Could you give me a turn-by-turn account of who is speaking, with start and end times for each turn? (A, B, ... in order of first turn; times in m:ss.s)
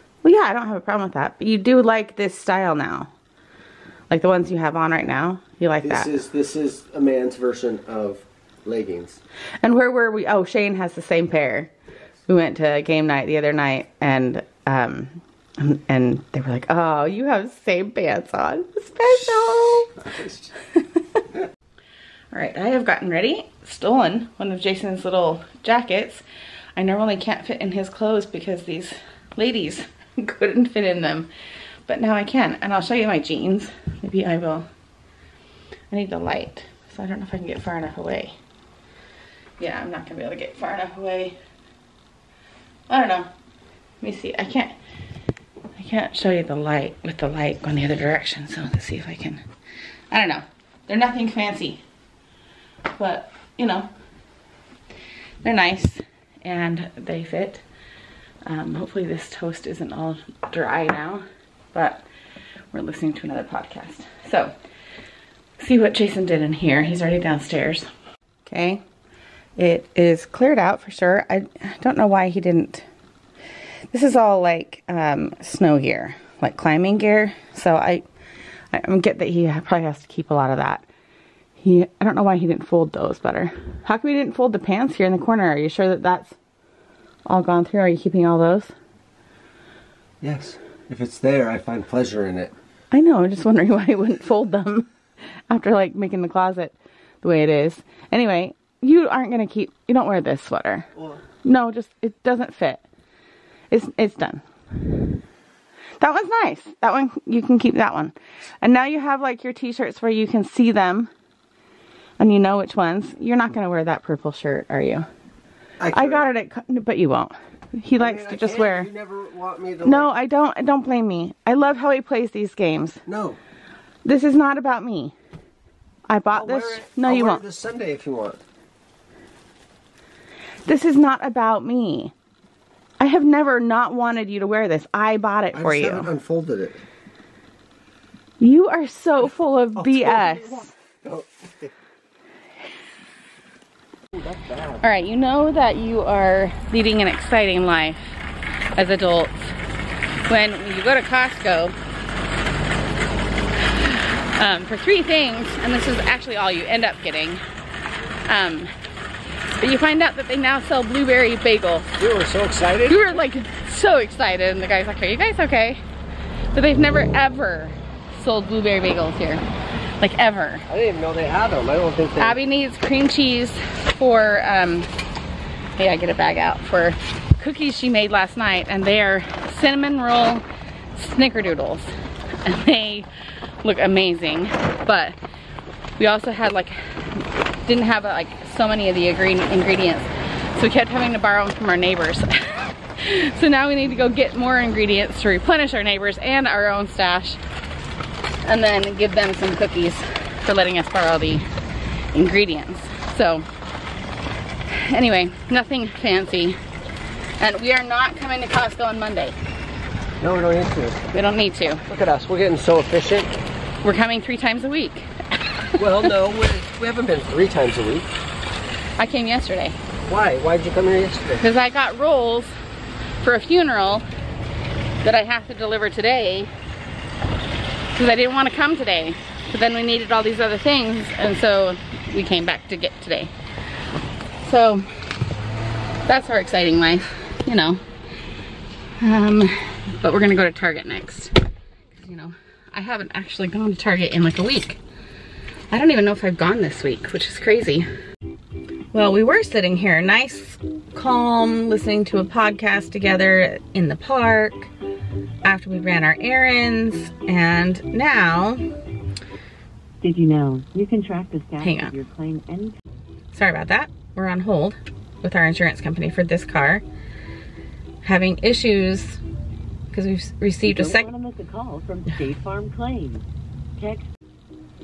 0:00.2-0:03.1 A
0:04.1-0:06.1 A
0:05.8-0:09.2 B
0:09.6-0:11.7 A
0:12.3-0:20.0 A
0:19.6-0:20.5 B
0:20.7-0:21.2 A
0:22.3-0:26.2 A
0:26.8-0:31.3 A
0:31.9-0:34.7 A
0:35.9-0:38.4 A
0:39.6-0:41.4 A
0:42.9-0:43.3 A
0:44.0-0:44.7 A
0:45.8-0:49.4 A
0:50.1-0:51.8 A
0:53.0-0:53.9 A
0:55.4-0:57.6 A
0:58.4-1:02.0 A
1:02.7-1:04.5 A
1:05.6-1:07.9 A
1:08.4-1:08.8 A
1:09.6-1:12.8 A
1:13.9-1:18.0 A
1:18.7-1:20.8 A
1:21.6-1:26.3 A
1:27.2-1:28.7 A
1:30.2-1:32.5 B
1:32.9-1:34.9 A
1:35.5-1:40.9 A
1:40.9-1:41.2 B
1:41.4-1:42.8 A
1:43.7-1:44.4 A
1:46.0-1:51.1 A
1:52.2-1:55.1 A
1:55.8-1:56.2 B
1:55.9-1:58.9 A
1:58.0-2:00.1 B
1:59.8-2:03.0 A
2:03.0-2:03.4 B
2:04.0-2:05.1 A
2:06.1-2:07.4 A
2:06.3-2:08.4 B
2:10.6-2:12.1 A
2:13.0-2:16.1 A
2:15.5-2:16.8 B
2:18.4-2:20.7 A
2:19.8-2:21.7 B
2:24.1-2:24.8 B
2:24.8-2:28.1 A
2:28.8-2:29.5 A
2:30.3-2:31.7 A
2:33.7-2:37.4 A
2:38.2-2:38.7 A
2:39.6-2:41.9 A
2:42.0-2:43.1 B
2:42.8-2:45.8 A
2:46.5-2:49.4 A
2:50.0-2:50.6 A
2:50.7-2:52.4 B
2:52.2-2:54.9 A
2:55.8-3:00.4 A
3:00.9-3:01.9 A
3:02.4-3:03.1 A
3:03.6-3:05.2 A
3:06.0-3:17.4 A
3:18.4-3:21.4 A
3:22.1-3:23.4 A
3:24.7-3:26.6 A
3:27.4-3:29.4 A
3:30.2-3:31.1 B
3:31.1-3:31.9 A
3:31.9-3:33.3 B
3:33.8-3:35.1 A
3:35.8-3:38.1 B
3:39.0-3:39.8 A
3:40.1-3:41.4 B
3:41.4-3:42.5 A
3:43.2-3:44.0 A
3:45.0-3:46.5 A
3:47.9-3:53.3 A
3:54.4-3:54.9 A
3:56.1-3:57.8 A
3:59.0-4:01.3 A
4:01.9-4:04.8 A
4:05.7-4:07.9 A
4:08.9-4:14.7 A
4:15.4-4:18.6 A
4:20.0-4:22.7 C
4:21.6-4:21.9 A
4:23.3-4:26.8 A
4:28.0-4:29.2 A
4:29.9-4:31.1 A
4:30.6-4:33.2 C
4:33.8-4:34.1 C